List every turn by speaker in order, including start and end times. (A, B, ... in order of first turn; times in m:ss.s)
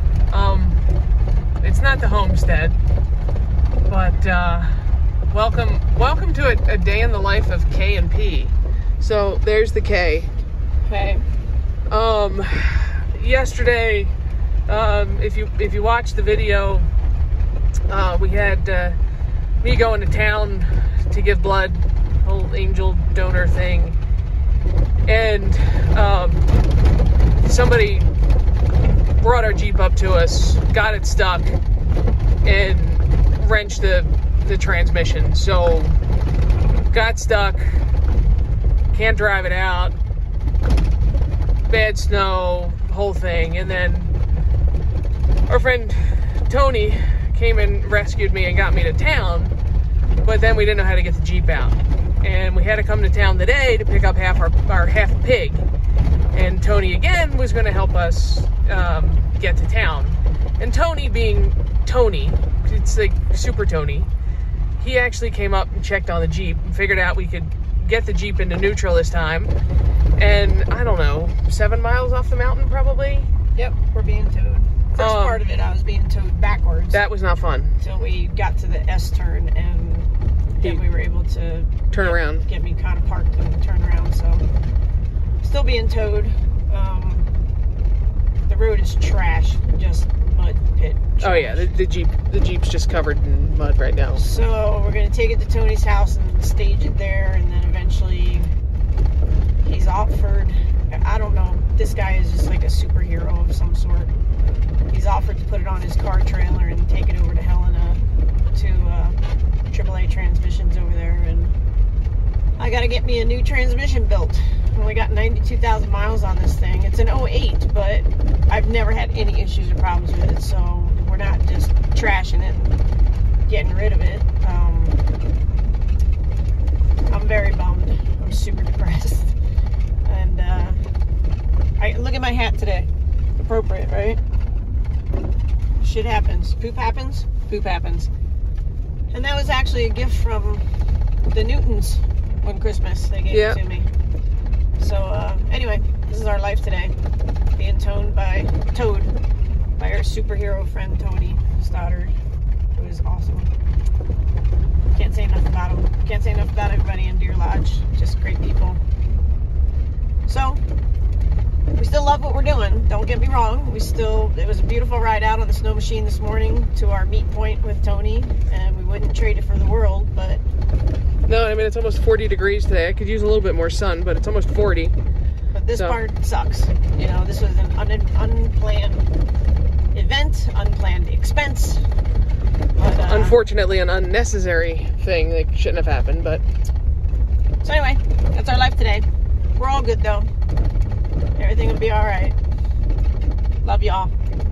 0:00.3-0:00.8 A
0:01.6-0:02.8 A
0:03.9-0:04.7 A
0:05.3-0:10.3 A
0:10.9-0:11.2 B
0:11.9-0:14.2 A
0:14.7-0:16.9 A
0:17.9-0:19.0 A
0:19.6-0:24.0 A
0:25.1-0:26.4 A
0:27.4-0:28.1 A
0:29.2-0:31.6 A
0:32.4-0:36.0 A
0:36.9-0:37.8 A
0:38.9-0:40.0 A
0:41.7-0:44.1 A
0:45.5-0:49.6 A
0:50.2-0:55.6 A
0:56.3-1:04.1 A
1:04.8-1:09.5 A
1:10.2-1:13.3 A
1:13.6-1:17.0 B
1:15.0-1:15.4 A
1:16.9-1:17.8 A
1:17.8-1:24.4 B
1:21.9-1:22.5 A
1:25.4-1:27.3 B
1:28.5-1:31.7 B
1:31.2-1:34.2 A
1:34.2-1:38.5 B
1:39.6-1:44.1 B
1:44.9-1:48.0 B
1:48.5-1:49.2 B
1:49.7-1:51.5 B
1:52.6-2:02.8 B
2:03.5-2:05.0 B
2:07.1-2:09.4 B
2:10.0-2:10.8 B
2:11.8-2:12.9 B
2:13.4-2:14.2 B
2:15.8-2:18.1 B
2:19.1-2:20.6 B
2:21.3-2:23.9 B
2:23.3-2:23.6 A
2:24.8-2:26.9 B
2:27.6-2:29.1 B
2:29.8-2:32.2 B
2:32.7-2:33.5 B
2:34.9-2:38.8 B
2:40.3-2:40.6 B
2:41.8-2:50.4 B
2:51.3-2:55.0 A
2:55.5-2:59.1 B
2:59.9-3:01.9 B
3:02.8-3:03.4 B
3:03.0-3:06.4 A
3:07.6-3:10.3 B
3:11.4-3:12.4 B
3:13.6-3:14.1 B